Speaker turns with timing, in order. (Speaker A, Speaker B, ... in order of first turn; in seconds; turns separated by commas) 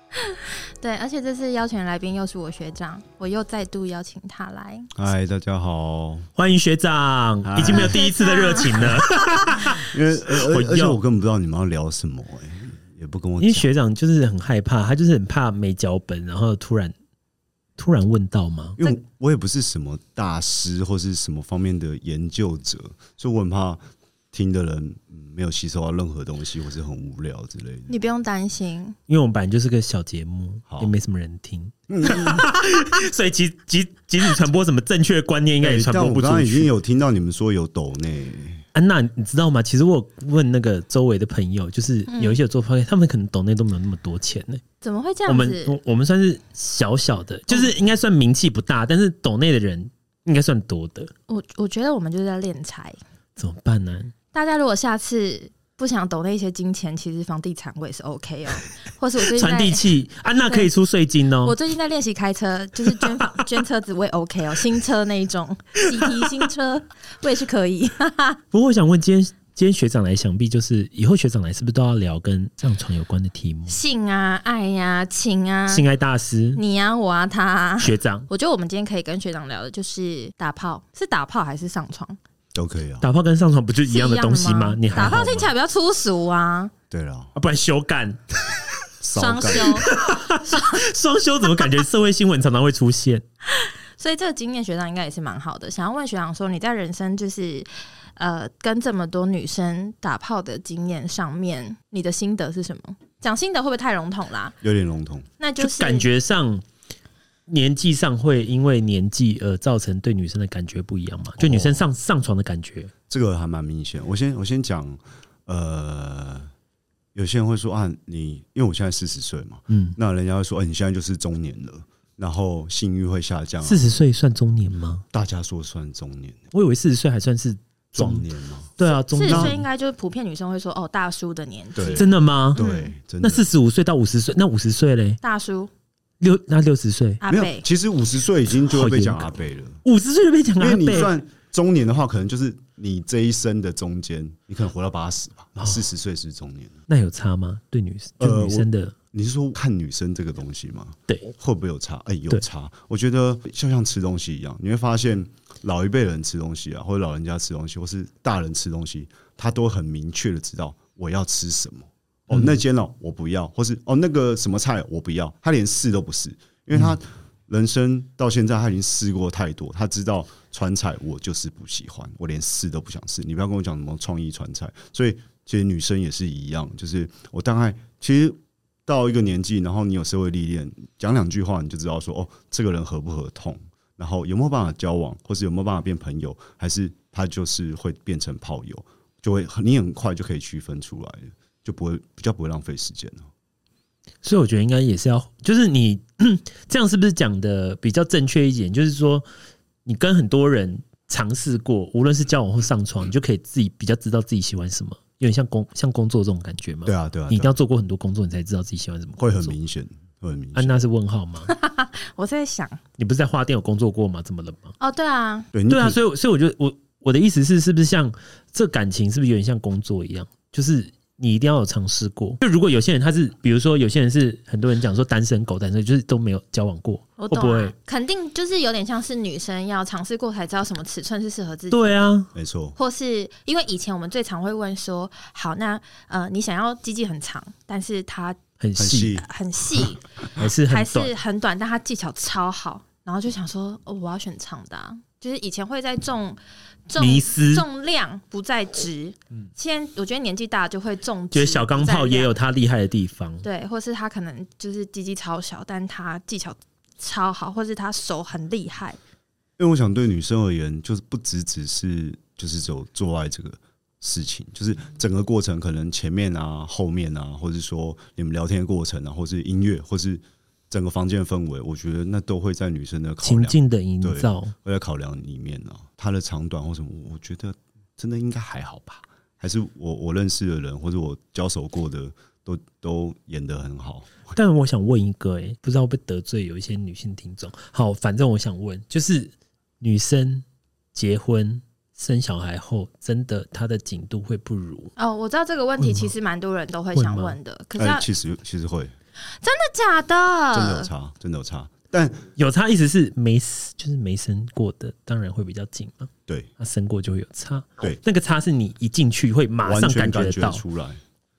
Speaker A: 0.2-4.9, Speaker B: 5.0-6.3, Speaker C: 6.4-11.0, Speaker B: 7.5-8.0, Speaker A: 7.7-9.6, Speaker B: 9.6-13.7, Speaker C: 13.4-16.9, Speaker C: 17.8-18.8, Speaker B: 18.8-23.8, Speaker B: 24.3-28.0, Speaker A: 27.9-29.0, Speaker C: 29.1-36.7, Speaker B: 31.9-32.5, Speaker B: 35.6-38.6, Speaker C: 38.8-44.6, Speaker A: 42.1-42.4, Speaker A: 44.8-45.8, Speaker C: 45.3-51.1, Speaker A: 51.3-53.0, Speaker C: 53.4-54.1, Speaker A: 54.3-59.8, Speaker C: 59.3-61.5, Speaker A: 61.4-68.4, Speaker C: 62.9-63.4, Speaker C: 66.0-66.3, Speaker C: 68.5-73.8, Speaker A: 73.7-75.8, Speaker C: 75.7-76.6, Speaker A: 76.6-82.2, Speaker C: 77.8-78.3, Speaker B: 82.5-83.1, Speaker C: 83.0-85.5, Speaker A: 83.9-86.7, Speaker B: 86.9-87.3, Speaker C: 87.4-88.6, Speaker B: 89.0-89.9, Speaker A: 89.2-89.9, Speaker C: 89.6-93.2, Speaker A: 90.5-90.8, Speaker A: 93.5-104.5, Speaker B: 104.6-105.3, Speaker A: 105.4-106.1, Speaker C: 105.6-106.6, Speaker C: 107.5-112.9, Speaker B: 111.4-111.9, Speaker B: 113.1-116.5, Speaker B: 117.2-123.9, Speaker C: 119.7-120.0, Speaker C: 123.6-125.0, Speaker B: 125.1-126.5, Speaker C: 126.5-128.2, Speaker B: 127.9-128.7, Speaker C: 128.8-129.6, Speaker A: 128.8-132.9, Speaker B: 129.3-129.6, Speaker B: 131.8-133.5, Speaker C: 132.0-132.6, Speaker C: 133.2-135.2, Speaker A: 135.2-135.7, Speaker C: 136.2-137.2, Speaker A: 137.2-137.7, Speaker B: 137.3-139.8, Speaker C: 138.6-141.1, Speaker B: 140.6-146.8, Speaker C: 146.9-149.0, Speaker B: 148.2-193.3, Speaker C: 162.3-162.6, Speaker C: 194.2-199.3, Speaker C: 199.9-209.6, Speaker B: 206.9-207.6, Speaker B: 209.2-210.8, Speaker C: 210.6-211.5, Speaker A: 211.5-212.8, Speaker C: 213.0-214.7, Speaker A: 214.8-215.5, Speaker B: 215.5-216.0, Speaker C: 215.7-227.7, Speaker A: 227.2-232.1, Speaker C: 231.7-232.3, Speaker B: 232.3-232.8, Speaker A: 232.8-238.4, Speaker C: 238.6-239.2, Speaker B: 238.8-239.3, Speaker A: 239.2-240.0, Speaker C: 240.4-241.1, Speaker A: 240.7-252.3, Speaker C: 247.0-247.7, Speaker C: 251.3-253.4, Speaker A: 253.4-259.0, Speaker B: 259.6-284.3, Speaker C: 273.2-274.5, Speaker C: 284.3-294.9, Speaker A: 295.0-298.1, Speaker C: 295.8-296.1, Speaker C: 296.9-297.4, Speaker B: 297.8-298.9, Speaker A: 299.4-300.9, Speaker B: 300.5-302.2, Speaker C: 302.4-310.6, Speaker B: 309.6-311.0